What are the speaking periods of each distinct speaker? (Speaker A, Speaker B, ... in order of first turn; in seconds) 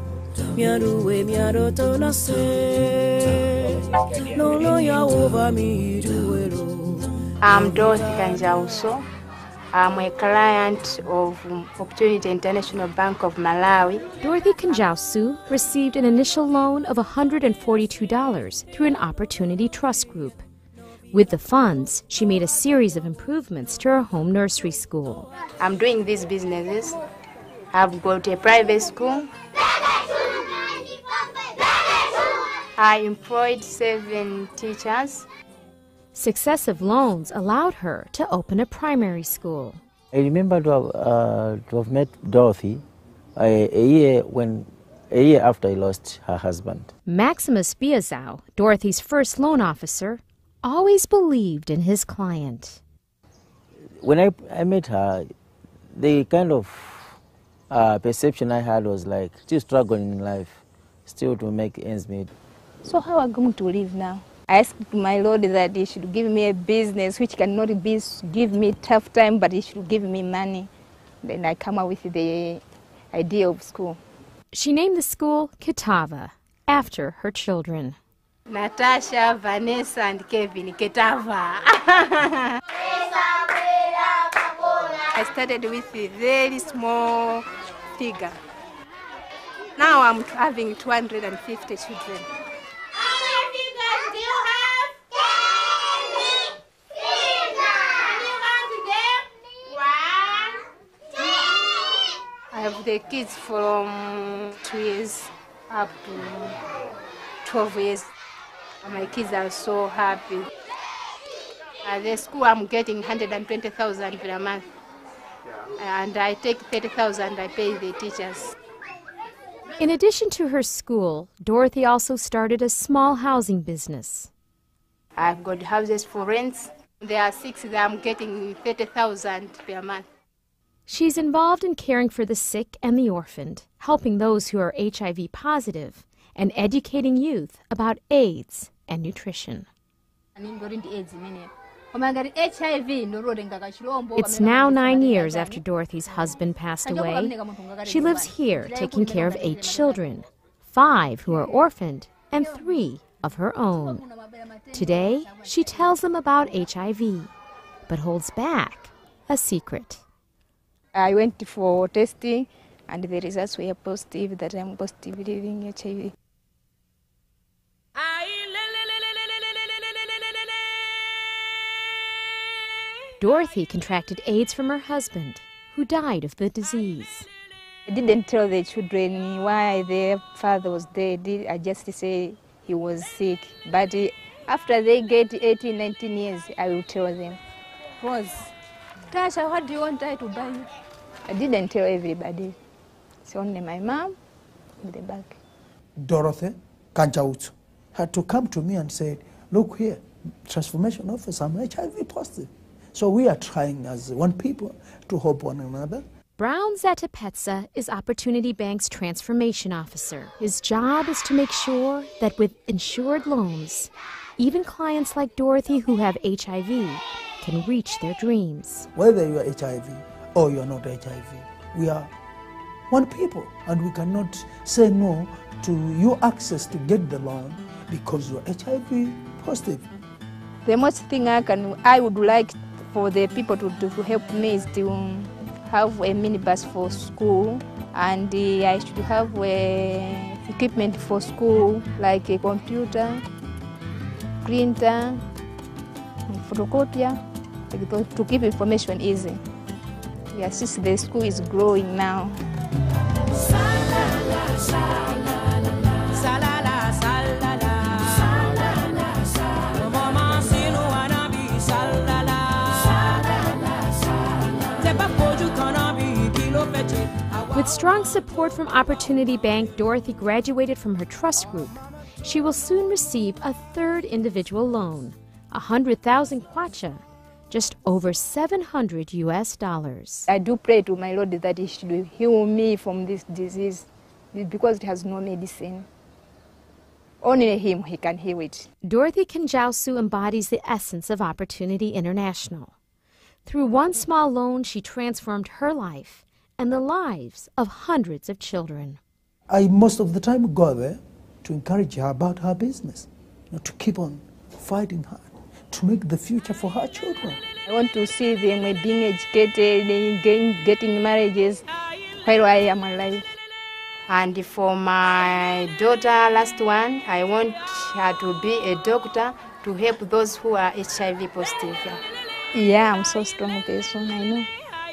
Speaker A: 0.4-7.2, 168.1-168.5, 256.1-263.5, 264.6-267.3
Speaker B: 7.4-9.0, 9.7-14.0, 25.6-27.0, 27.7-29.3, 32.8-35.2, 78.5-82.6, 83.2-83.9, 84.4-85.0, 88.0-88.3, 93.1-94.8, 97.3-100.6, 102.5-106.6, 107.4-108.1, 108.8-110.5, 111.8-114.7, 115.8-118.5, 125.2-130.1, 314.1-322.0
Speaker C: 14.2-20.4, 21.1-25.3, 36.1-39.8, 47.0-52.8, 74.5-78.0, 119.8-124.3, 130.9-139.7, 144.2-147.3, 147.8-154.0, 154.7-157.3, 157.9-160.0, 173.2-177.3, 206.4-218.9, 267.5-280.3, 288.8-292.7, 293.4-299.0
Speaker D: 40.1-42.8, 43.4-46.9, 54.0-55.2, 56.0-57.0, 57.7-62.3
Speaker E: 62.8-70.7, 71.2-72.6, 73.1-74.0, 85.1-87.4, 89.8-92.2, 140.3-145.6, 146.8-150.0, 154.0-155.4, 160.9-166.1, 177.9-187.4, 188.0-188.5, 189.1-190.7, 191.3-192.5, 193.2-194.1, 194.8-195.4, 230.6-243.2, 244.4-245.2, 246.3-247.2, 247.7-249.4, 250.3-252.4, 280.3-285.9, 287.2-288.7, 307.6-311.6, 312.2-313.3, 322.5-324.5
Speaker F: 196.0-206.0, 218.9-222.1, 222.9-229.9, 299.5-307.4